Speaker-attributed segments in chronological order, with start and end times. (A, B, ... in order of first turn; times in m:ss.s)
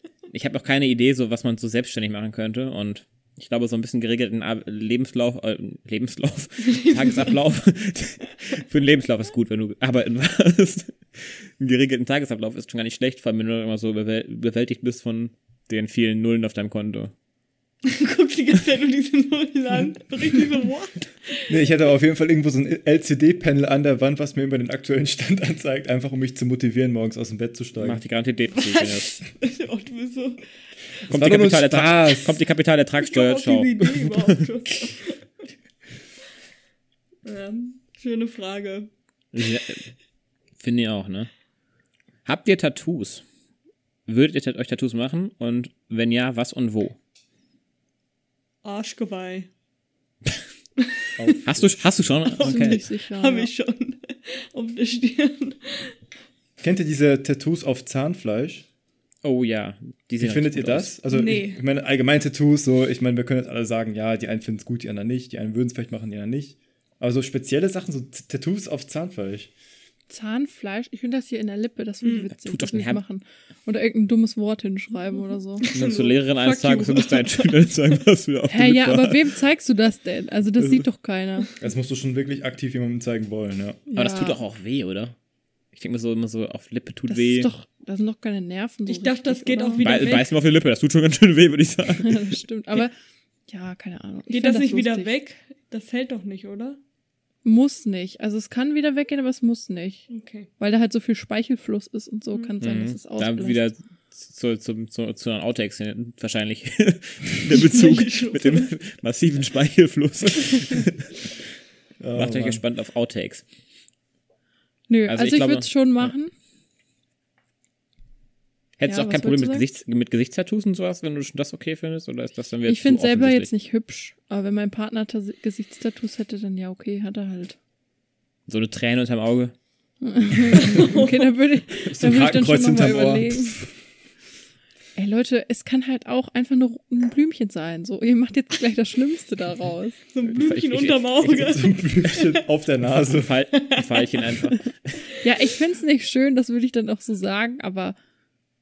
0:00.3-0:17.1 A
0:06.6-0:07.3 B
0:17.8-0:21.5 B
0:21.5-0:28.0 C
0:27.8-0:29.2 A
0:28.5-0:30.4 B
0:31.0-0:34.5 A
0:31.1-0:32.4 C
0:33.0-0:35.2 B
0:37.2-0:38.9 B
0:39.3-0:39.8 A
0:40.6-0:41.3 A
0:42.2-0:43.2 A
0:44.1-0:47.0 A
0:48.6-0:49.5 B
0:50.8-0:51.1 B
0:51.2-0:52.2 C
0:51.4-0:52.8 A
0:52.4-0:56.0 B
0:52.4-0:53.5 D
0:56.6-0:58.6 C
0:59.2-1:01.0 A
1:00.2-1:09.5 C
1:01.1-1:01.6 B
1:10.1-1:15.7 D
1:12.0-1:12.3 B
1:12.4-1:13.0 A
1:15.6-1:17.8 B
1:15.7-1:19.3 A
1:18.5-1:21.5 D
1:21.6-1:23.8 C
1:23.9-1:24.4 D
1:24.0-1:25.1 A
1:25.7-1:27.5 A
1:27.1-1:30.2 D
1:28.8-1:30.3 B
1:29.8-1:32.4 A
1:32.0-1:32.9 D
1:33.5-1:35.1 D
1:34.3-1:36.8 B
1:37.4-1:43.7 D
1:40.1-1:40.5 B
1:42.6-1:51.3 A
1:47.5-1:48.7 B
1:52.0-1:52.6 C
1:52.1-1:53.4 A
1:54.9-1:56.3 D
1:55.1-1:56.1 A
1:58.8-2:03.5 A
1:58.8-1:59.7 D
2:02.6-2:07.6 D
2:08.5-2:09.5 A
2:10.0-2:13.6 D
2:10.6-2:11.4 B
2:11.9-2:13.7 C
2:15.0-2:20.0 D
2:20.1-2:22.4 B
2:20.2-2:21.6 A
2:21.4-2:23.3 C
2:23.1-2:25.0 A
2:23.5-2:24.2 B
2:25.2-2:28.0 D